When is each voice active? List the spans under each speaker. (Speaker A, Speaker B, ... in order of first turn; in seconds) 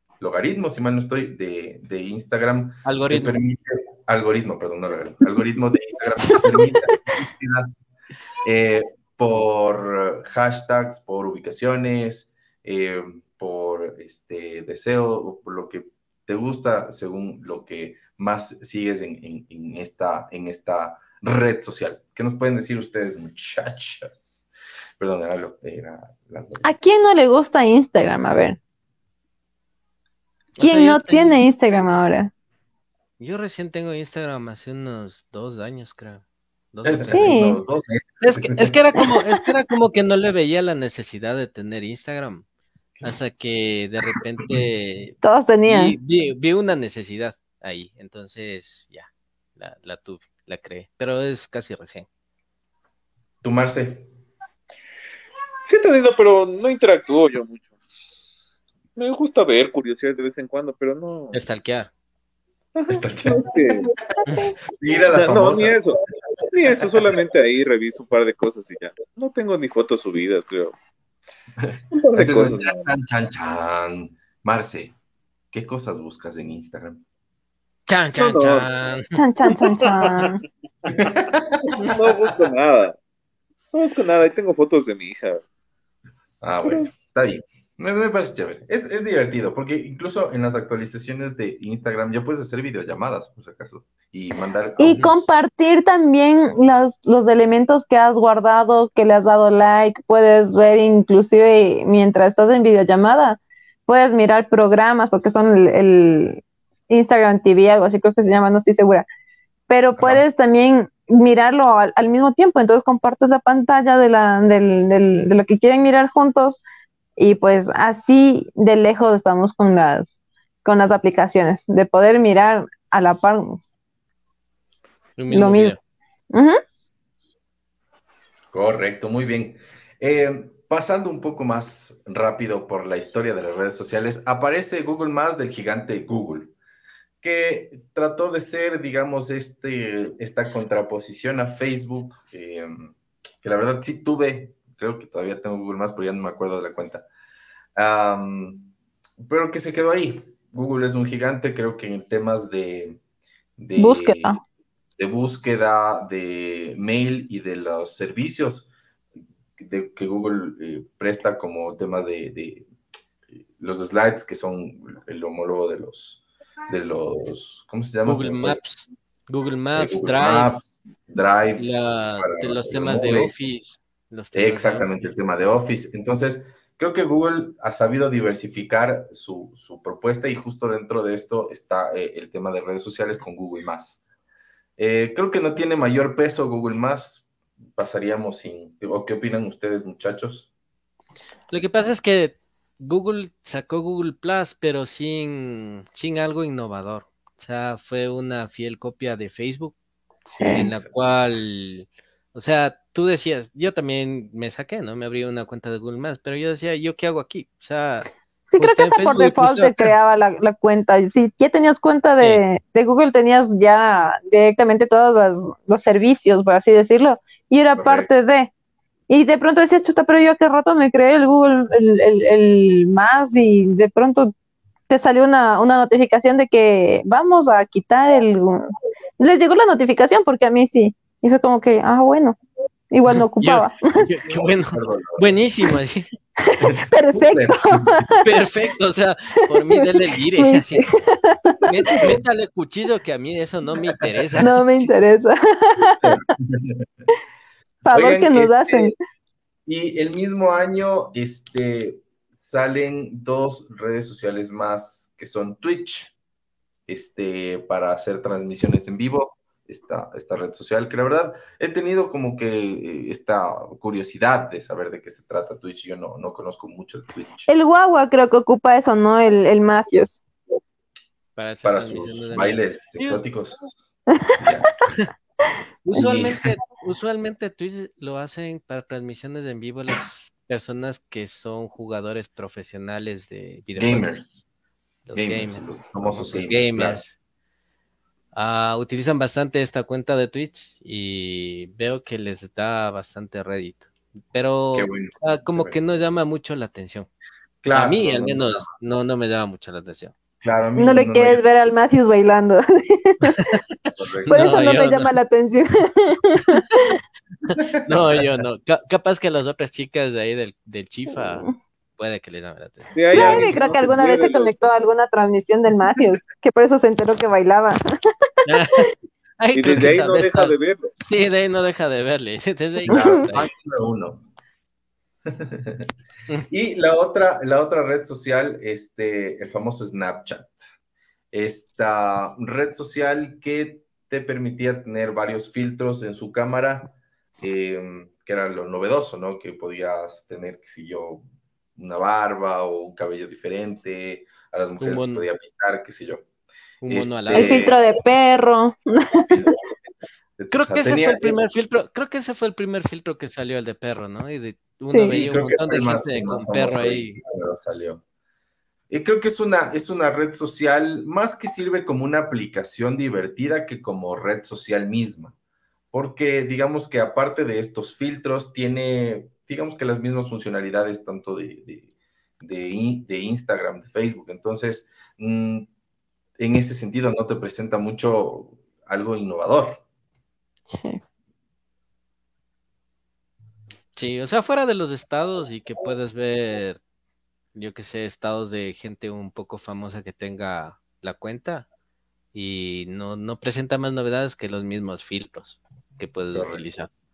Speaker A: 0.2-7.9, 8.4-26.7, 36.8-38.7, 44.1-44.6, 53.4-54.1, 62.9-63.5, 64.7-65.8, 71.6-74.9, 75.5-77.0, 80.9-82.0, 86.4-95.3, 110.0-110.2, 128.5-136.5, 137.2-147.1, 147.8-148.7, 149.2-153.0, 153.6-154.4, 155.0-158.7, 159.6-162.7, 163.6-168.6, 169.7-173.3, 174.3-184.0, 184.8-190.5, 200.4-200.8, 217.7-218.1, 234.3-235.4, 236.6-238.0, 243.9-244.2, 246.0-246.8, 247.9-248.9, 249.7-256.1, 256.9-267.5, 271.6-273.8, 274.4-274.7, 275.9-276.5, 283.8-284.4, 285.1-287.0, 294.7-295.8, 297.6-298.7, 300.4-301.4, 303.9-304.6, 307.6-308.3, 313.1-313.8, 322.9-324.2, 325.3-325.9, 326.5-330.6, 331.3-336.9, 337.4-341.2, 341.8-346.2, 346.9-347.8, 349.3-349.6, 350.4-351.4, 355.0-358.0, 358.9-365.3, 365.9-371.9, 372.4-375.7, 376.4-379.8, 396.3-396.6
Speaker B: 2.8-3.4, 30.6-31.4, 33.2-37.4, 38.2-42.4, 43.0-52.1, 61.3-61.9, 77.9-79.1, 125.2-125.8, 168.1-170.6, 171.6-175.1, 191.5-199.8, 200.4-209.9, 233.1-236.1, 238.2-240.9, 241.7-244.6, 271.4-273.2, 275.8-284.1, 285.1-287.1, 288.3-297.1, 297.7-300.1, 303.4-305.1, 306.4-306.9, 307.8-312.9, 318.4-320.5, 321.1-323.5, 344.8-345.2, 346.8-347.7, 350.5-357.2, 383.9-386.8, 387.5-391.7, 392.3-396.9
Speaker C: 26.6-28.6, 30.6-32.3, 37.1-37.6, 45.2-45.9, 63.8-64.5, 79.1-80.4, 94.8-109.0, 109.7-116.6, 117.2-123.6, 125.3-125.7, 126.3-126.6, 153.8-154.4, 200.2-200.7, 208.5-218.5, 219.1-224.3, 224.9-232.4, 232.9-233.9, 236.4-238.3, 240.3-242.1, 244.4-246.2, 247.8-248.9, 267.5-270.2, 300.8-303.6, 304.3-307.0, 311.2-311.5, 313.1-317.8, 347.3-349.6, 354.9-355.1, 380.7-381.0
Speaker D: 55.6-57.7, 59.0-61.4, 62.8-63.9, 65.1-70.7, 71.9-72.9, 78.2-78.7, 81.6-83.0, 83.7-85.4, 86.6-86.9, 312.9-314.6, 319.5-320.9